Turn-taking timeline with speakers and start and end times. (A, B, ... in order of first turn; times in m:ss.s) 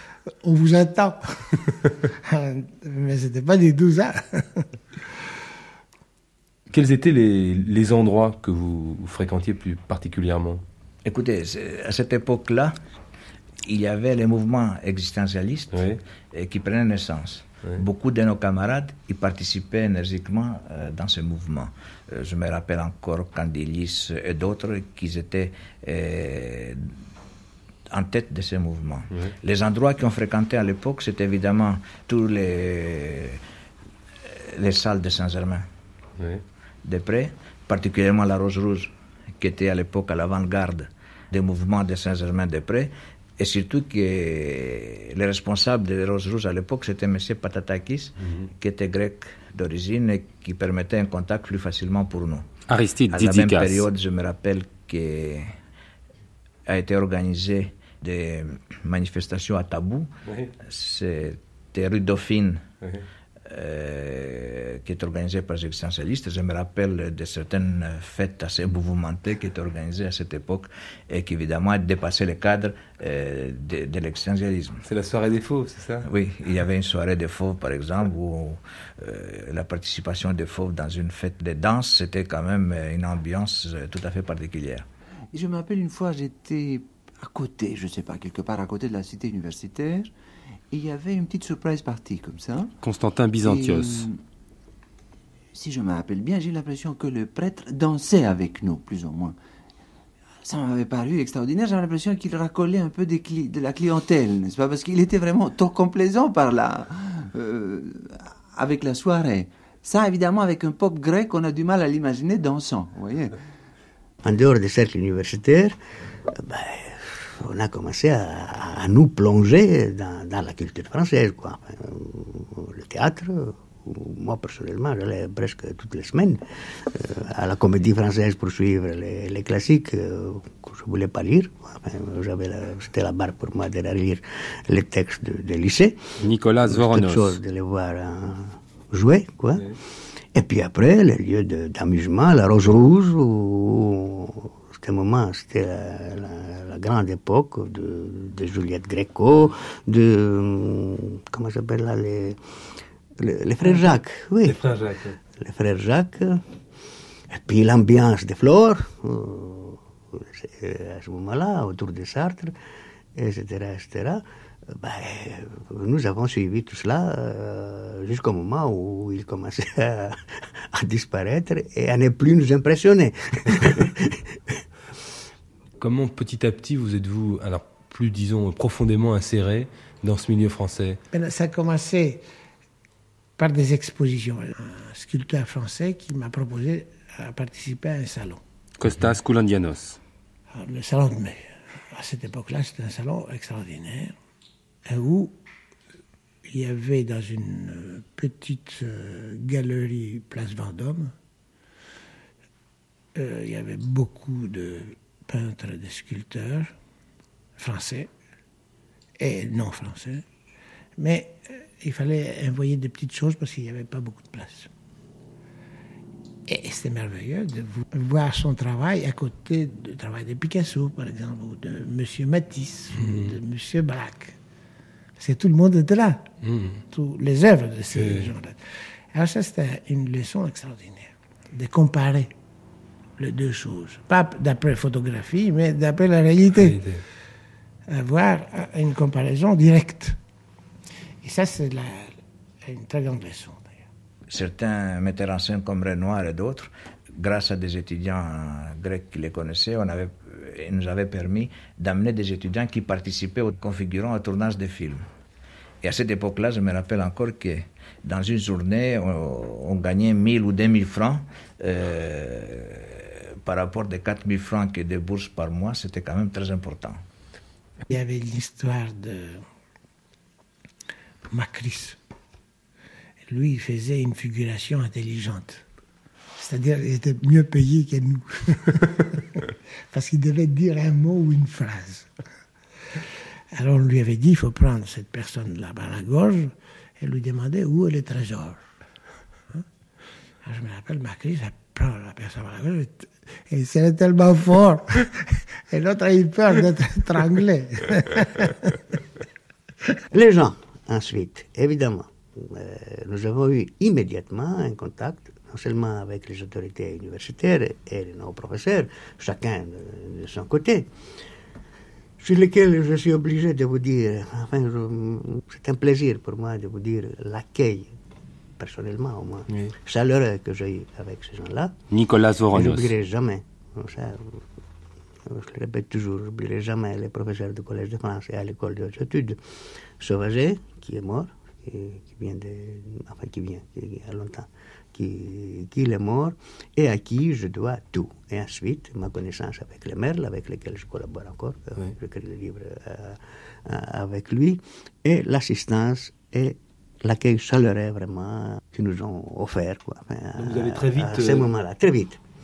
0:00.4-0:04.7 A
0:06.7-0:10.6 B
0:11.0-0:12.8 C
0:13.6-0:26.9 C
0:15.7-0:16.0 B
0:27.9-0:33.4 C
0:34.2-0:35.6 C
0:36.2-0:36.4 B
0:36.8-0:52.5 C
0:52.7-0:53.8 B
0:53.1-0:55.5 C
0:56.7-1:00.1 C
1:00.6-1:02.6 C
1:03.4-1:14.8 C
1:14.8-1:16.1 B
1:16.0-1:24.8 C
1:25.3-1:30.1 D
1:30.7-1:32.7 D
1:32.8-1:34.1 B
1:33.4-1:34.2 D
1:35.5-1:39.4 D
1:40.4-1:53.4 D
1:54.2-1:55.8 E
1:56.3-2:16.0 E
2:16.2-2:17.4 B
2:16.7-2:19.7 E
2:20.3-2:32.4 E
2:33.2-2:34.6 E
2:34.4-2:35.2 B
2:35.4-2:36.4 E
2:37.3-2:42.5 E
2:43.1-2:50.2 E
2:50.7-2:54.2 E
2:55.8-3:01.0 B
3:01.1-3:02.2 A
3:03.4-3:08.4 A
3:08.8-3:10.0 B
3:10.5-3:14.2 A
3:14.8-3:15.4 A
3:16.4-3:21.1 A
3:23.1-3:26.7 A
3:27.6-3:28.1 A
3:29.2-3:30.2 A
3:31.0-3:34.7 A
3:36.5-3:44.4 A
3:43.0-3:43.3 B
3:45.2-3:46.3 A
3:46.4-3:46.8 B
3:46.9-3:48.6 A
3:48.0-3:48.3 B
3:49.1-3:52.3 A
3:53.2-3:56.8 A
3:56.6-3:57.0 B
3:57.9-4:00.2 A
4:01.2-4:03.9 A
4:04.3-4:15.0 C
4:15.8-4:27.0 C
4:27.9-4:29.5 A
4:31.2-4:32.0 A
4:33.3-4:35.6 A
4:36.4-4:42.1 A
4:43.5-4:48.6 A
4:50.4-4:58.8 A
5:00.1-5:10.9 E
5:12.2-5:17.9 E
5:18.6-5:21.7 E
5:21.9-5:22.9 B
5:22.5-5:24.4 E
5:25.2-5:29.4 E
5:30.0-5:52.2 E
5:50.4-5:51.5 B